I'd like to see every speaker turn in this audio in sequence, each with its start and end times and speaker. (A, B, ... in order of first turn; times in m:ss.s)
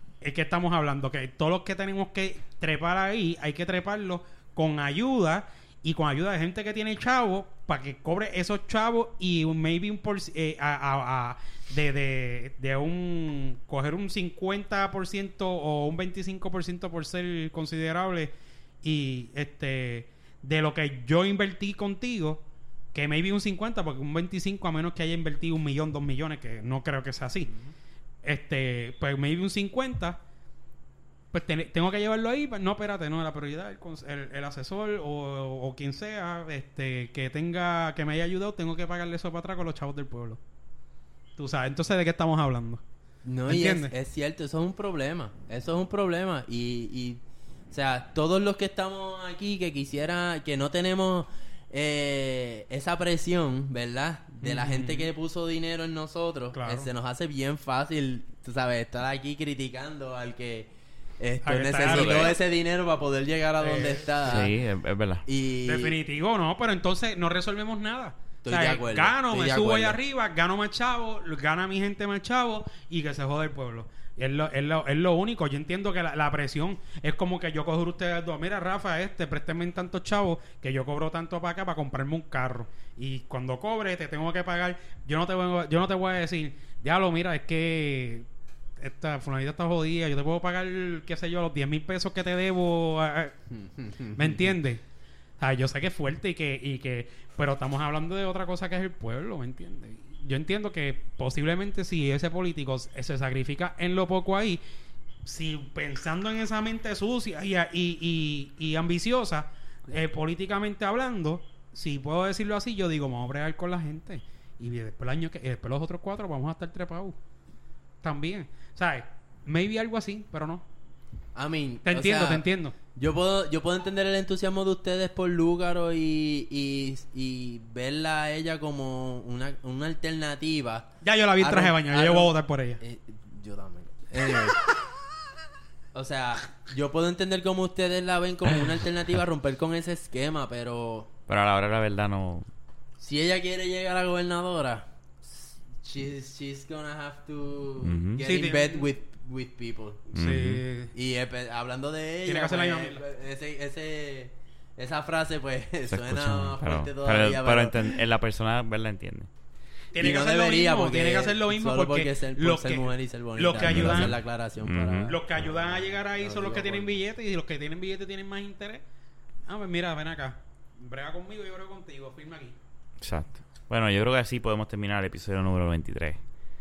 0:00.2-0:27.5 A
0:28.2-0:30.2 A
0:31.3-0:40.4 A
0:41.4-0:42.8 A
0:43.2-1:04.5 B
0:43.5-0:43.9 A
0:54.4-0:55.1 A
0:56.5-0:56.9 A
1:01.4-1:02.4 A
1:01.8-1:02.4 C
1:03.6-1:04.0 A
1:04.2-1:05.2 C
1:05.3-1:06.0 B
1:05.7-1:28.3 A
1:08.4-1:10.0 B
1:28.8-1:33.4 A
1:33.5-1:34.5 B
1:34.2-1:34.8 A
1:35.4-1:44.6 A
1:45.2-1:57.2 A
1:58.0-2:00.6 A
2:01.4-2:14.6 B
2:01.9-2:02.8 A
2:11.0-2:12.8 A
2:15.9-2:21.1 B
2:21.3-2:22.5 C
2:23.0-2:30.1 B
2:27.8-2:28.2 C
2:28.2-2:28.9 A
2:30.1-2:30.6 C
2:30.1-2:30.9 A
2:30.9-2:38.0 B
2:32.3-2:33.0 A
2:35.9-2:39.3 C
2:39.9-2:44.2 A
2:40.0-2:47.0 B
2:43.6-2:45.2 C
2:45.1-2:48.8 A
2:49.5-2:52.6 A
2:53.0-2:56.2 C